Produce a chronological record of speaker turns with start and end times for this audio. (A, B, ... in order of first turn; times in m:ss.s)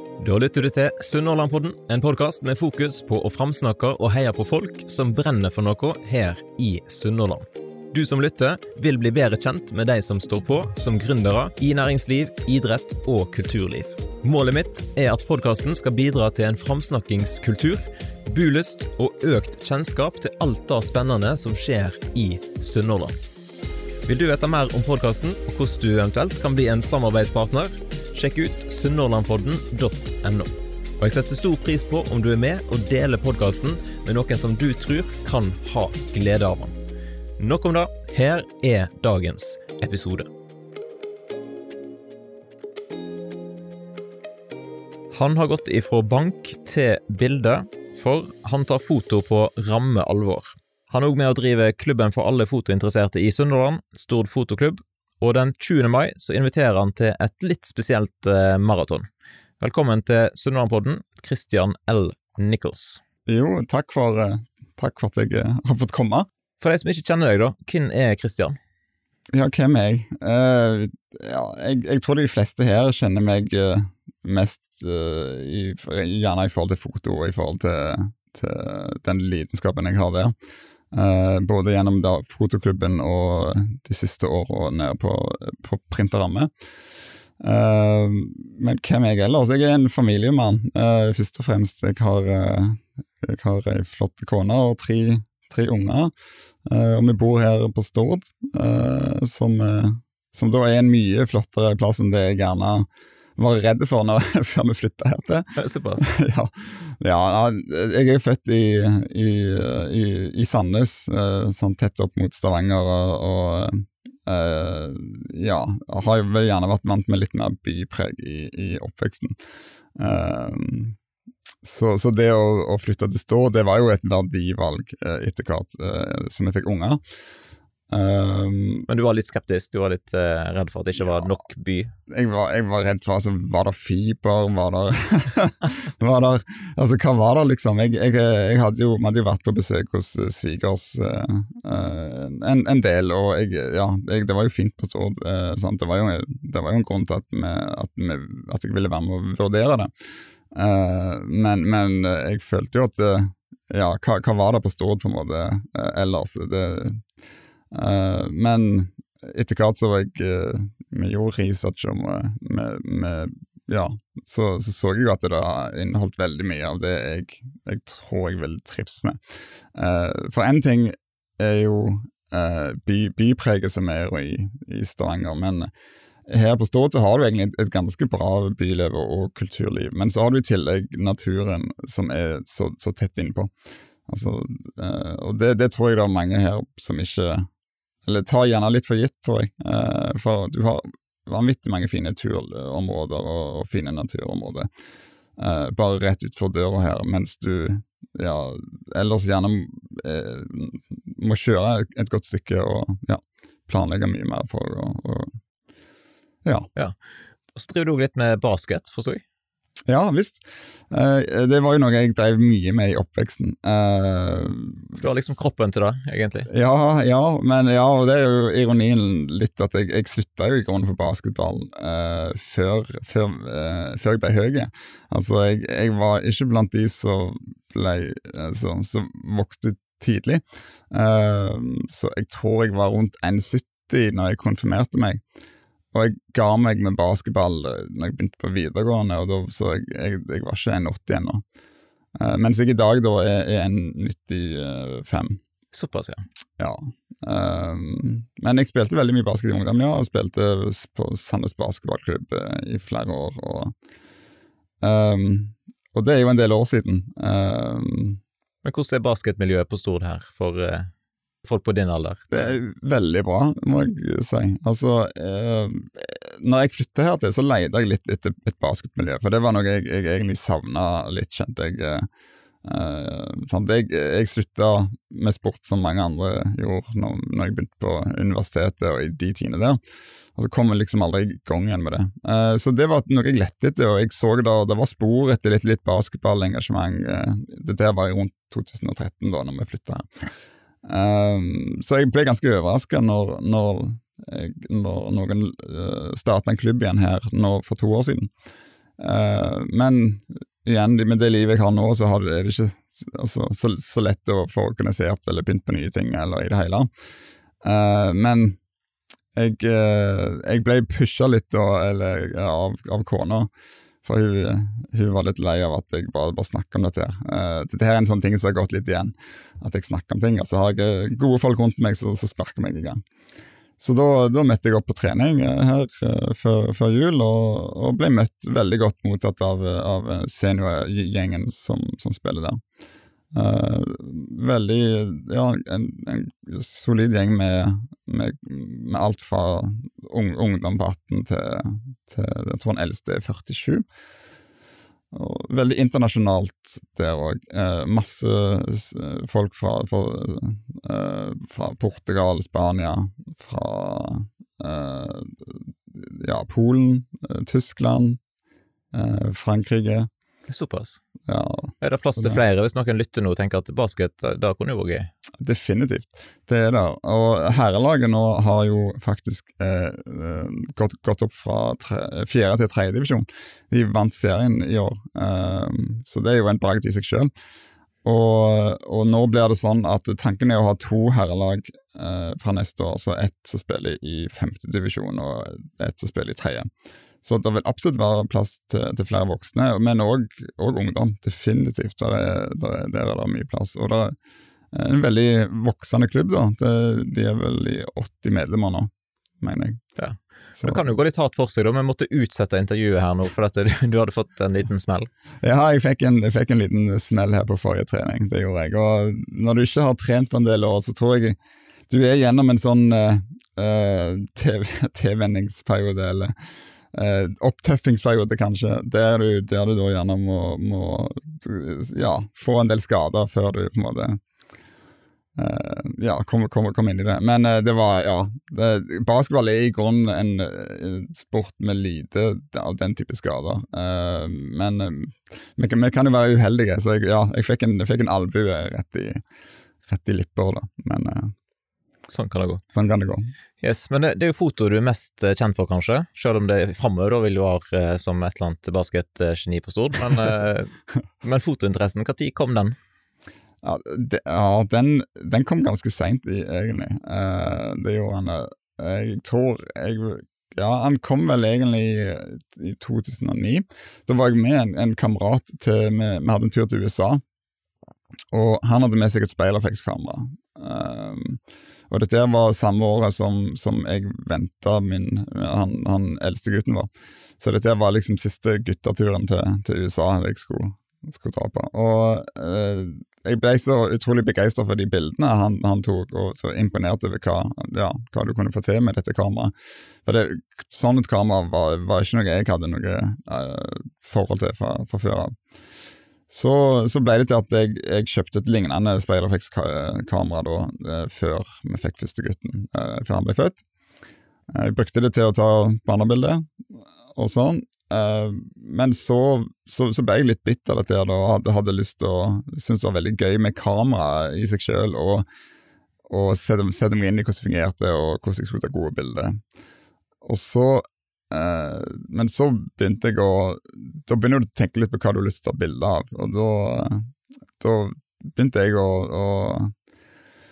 0:00.2-0:23.2 A
0:24.0-0:36.8 A
0:37.4-0:40.3 A
0:45.1-0:59.1 A
0:59.6-1:03.0 A
1:03.3-1:06.3 B
1:06.6-1:08.6 A
1:09.3-1:20.3 B
1:20.9-1:26.5 B
1:27.4-1:36.1 B
1:36.6-1:59.3 B
1:45.6-1:46.0 A
2:00.0-2:01.0 B
2:01.6-2:07.0 B
2:07.9-2:08.9 B
2:08.9-2:11.9 A
2:12.1-2:29.9 B
2:30.5-2:37.0 B
2:37.7-2:49.2 B
2:49.7-2:55.7 B
2:56.3-3:03.5 B
3:04.1-3:07.5 B
3:08.0-3:14.7 B
3:15.4-3:25.3 B
3:27.5-3:29.2 A
3:29.9-3:35.0 B
3:35.0-3:36.5 A
3:36.5-3:55.2 B
3:55.9-4:01.4 B
4:02.2-4:05.4 B
4:05.7-4:06.2 A
4:06.6-4:13.7 B
4:14.8-4:18.2 B
4:18.6-4:20.9 A
4:21.4-4:22.5 A
4:22.3-4:32.1 B
4:32.6-4:39.8 B
4:40.4-4:50.1 B
4:50.8-4:58.3 B
4:59.0-5:06.9 B
5:07.6-5:08.6 B
5:09.4-5:13.5 B
5:14.0-5:23.0 B
5:23.8-5:32.6 B
5:33.3-5:43.8 B
5:45.1-5:58.2 B
5:58.9-6:00.1 B
6:00.5-6:01.0 A
6:01.3-6:02.4 B
6:01.8-6:05.1 A
6:05.4-6:17.3 B
6:18.0-6:26.7 B
6:27.2-6:34.1 B
6:34.7-6:38.9 B
6:39.4-6:39.8 B
6:40.0-6:45.1 A
6:40.6-6:40.9 B
6:45.4-6:51.4 B
6:51.9-6:56.3 B
6:56.9-7:04.2 B
7:05.4-7:19.2 B
7:19.9-7:21.3 B
7:22.1-7:22.6 A
7:22.7-7:23.3 B
7:23.6-7:30.7 A
7:31.2-7:32.7 A
7:33.6-7:47.2 B
7:48.3-7:56.9 B
7:57.4-8:09.5 B
8:10.0-8:15.3 B
8:16.3-8:23.6 B
8:24.5-8:26.4 B
8:27.2-8:35.2 B
8:36.1-8:39.4 B
8:40.2-8:49.7 B